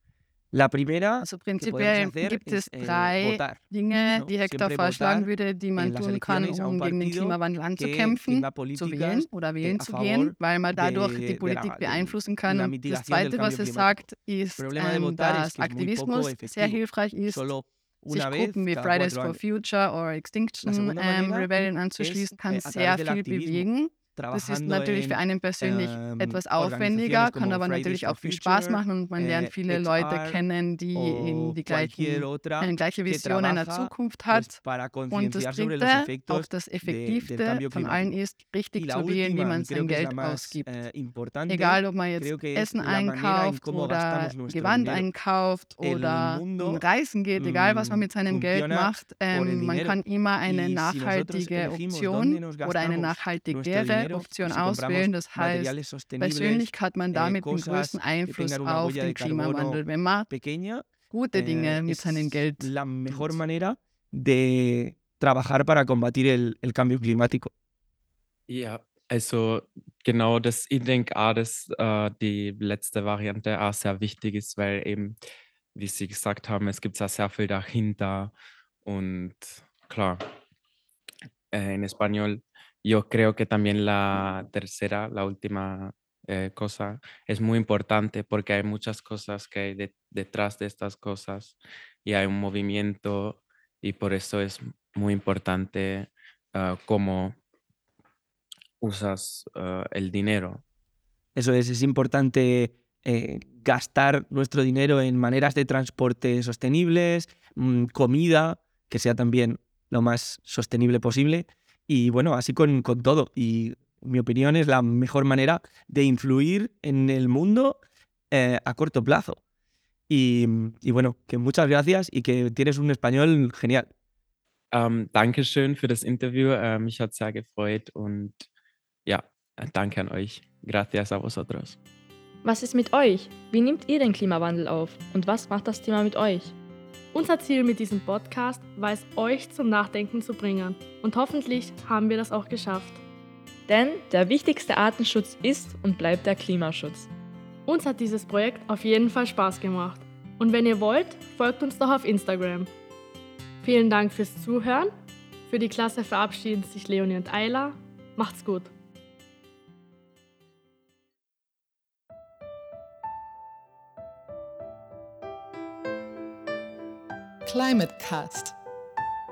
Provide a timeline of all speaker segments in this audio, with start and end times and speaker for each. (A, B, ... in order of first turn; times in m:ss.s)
0:00.5-0:14.0 A
0:01.2-0:17.5 B
0:14.6-0:19.4 A
0:18.1-0:34.6 B
0:20.6-0:30.4 A
0:30.9-0:38.1 A
0:35.1-0:40.6 B
0:38.8-0:45.1 A
0:41.5-1:00.3 B
0:45.8-0:46.8 A
0:47.3-1:07.5 A
1:01.1-1:03.4 B
1:08.5-1:15.2 C
1:15.7-1:18.3 C
1:18.8-1:20.2 C
1:21.5-1:37.4 C
1:38.8-1:40.6 C
1:41.4-1:57.8 A
1:58.3-1:59.4 A
2:00.1-2:03.9 A
2:04.7-2:08.4 C
2:09.0-2:11.8 C
2:12.4-2:16.5 D
2:17.1-2:23.0 E
2:23.7-2:27.1 D
2:27.7-2:32.7 E
2:33.6-2:34.9 E
2:35.5-2:38.7 E
2:47.4-2:48.5 B